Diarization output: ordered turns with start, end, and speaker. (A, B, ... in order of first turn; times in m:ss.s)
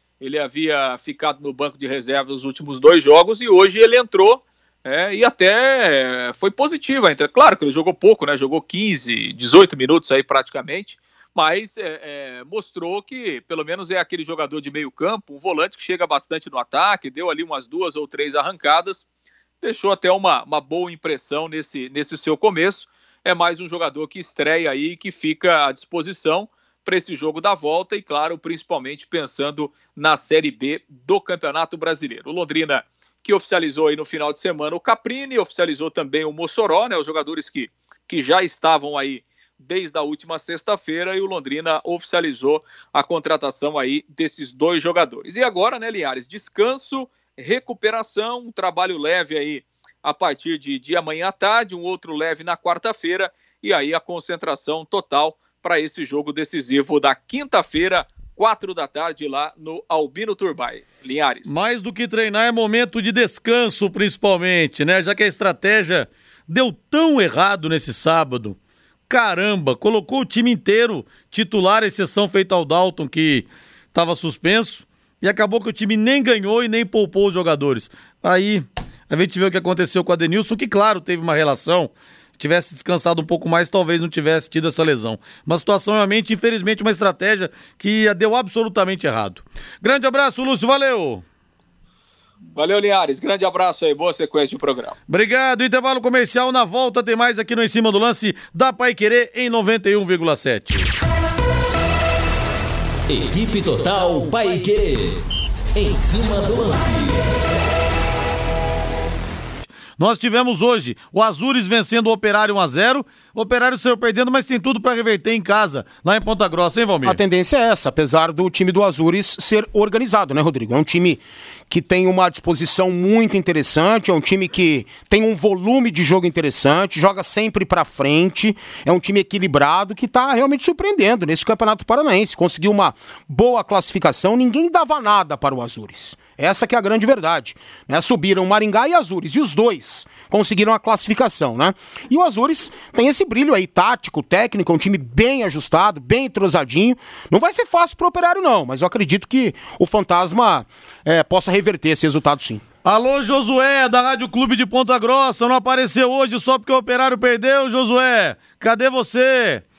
0:00.2-0:19.0 A
0:19.6-1:01.6 A
1:01.5-1:08.6 B
1:09.1-1:31.2 B
1:32.6-1:35.0 A
1:35.1-1:40.9 B
1:43.1-1:45.2 C
1:45.8-1:47.6 C
1:50.0-1:57.2 B
1:57.0-2:32.6 D
2:32.8-2:39.6 B